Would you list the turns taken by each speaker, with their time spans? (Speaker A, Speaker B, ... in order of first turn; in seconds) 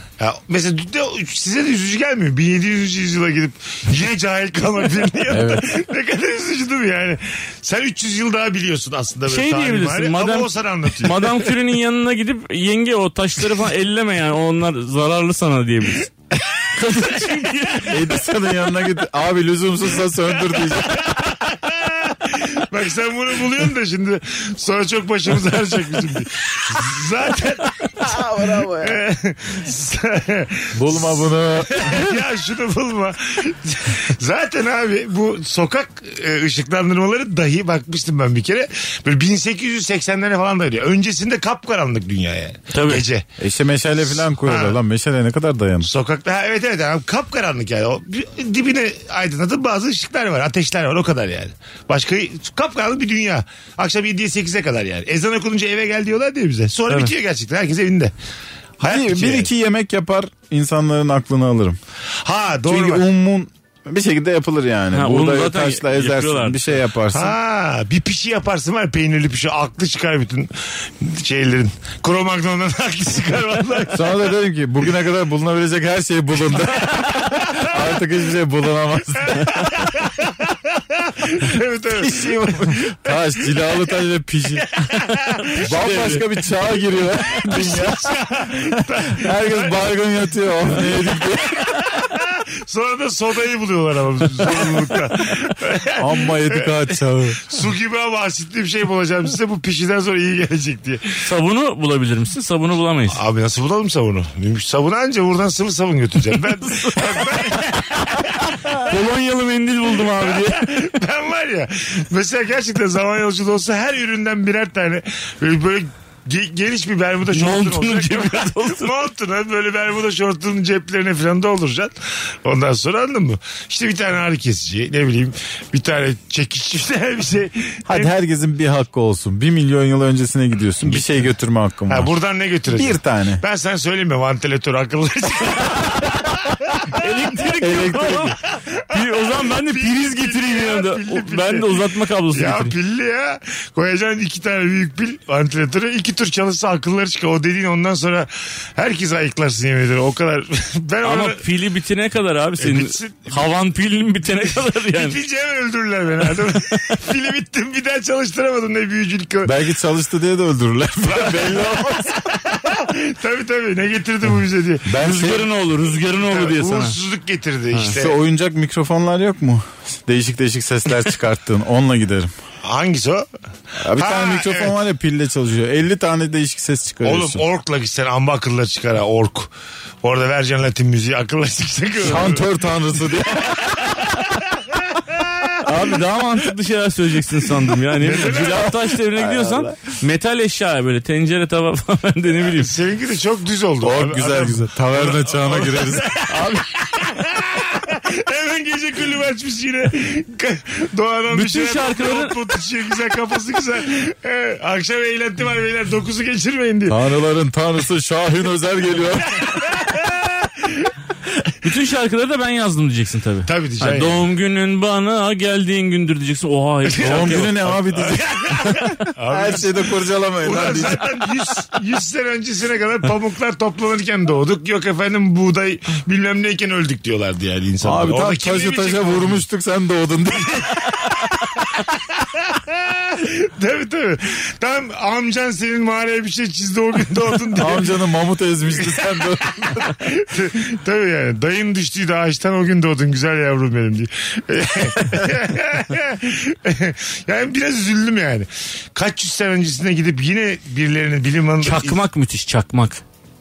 Speaker A: 0.2-11.5, 20.6-28.2, 28.8-43.3, 44.4-44.8, 45.8-58.1, 58.8-59.5, 62.2-63.0, 67.1-74.1, 76.7-77.8, 79.2-83.1, 84.7-86.2, 87.3-89.9, 91.8-96.7, 97.5-101.2, 103.1-108.9, 110.0-128.1, 130.8-131.2, 131.9-136.8, 138.6-151.4, 152.6-153.4, 154.9-159.5, 161.1-165.3, 166.2-168.2, 172.6-173.3, 173.9-174.8, 177.0-179.5, 180.0-182.4, 183.5-185.6, 187.9-188.8, 192.5-207.0, 209.8-210.9, 213.5-214.2, 216.9-229.4, 232.1-237.9, 238.8-252.0
Speaker B: 5.3-5.7, 17.9-21.1, 28.0-29.0, 30.7-32.2, 43.4-45.9, 58.8-61.8, 62.7-67.4, 73.9-79.7, 81.9-84.7, 85.6-91.8, 94.5-94.7, 96.0-97.4, 127.9-132.1, 132.7-133.4, 137.6-138.3, 159.4-162.2, 164.9-165.5, 167.9-172.3, 173.8-177.4, 182.0-183.9, 189.2-189.8, 193.8-196.1, 206.9-209.5, 217.0-221.1, 227.8-231.1, 237.6-239.9
Speaker C: 9.3-16.1, 16.7-18.1, 42.7-43.0, 64.9-66.6, 85.4-86.2, 101.2-103.2, 106.3-107.5, 108.8-110.7, 117.3-118.9, 136.9-138.4, 138.9-142.7, 151.0-155.2, 165.0-167.0, 185.6-192.7, 196.3-196.7, 201.3-202.4, 211.6-217.6, 251.6-253.0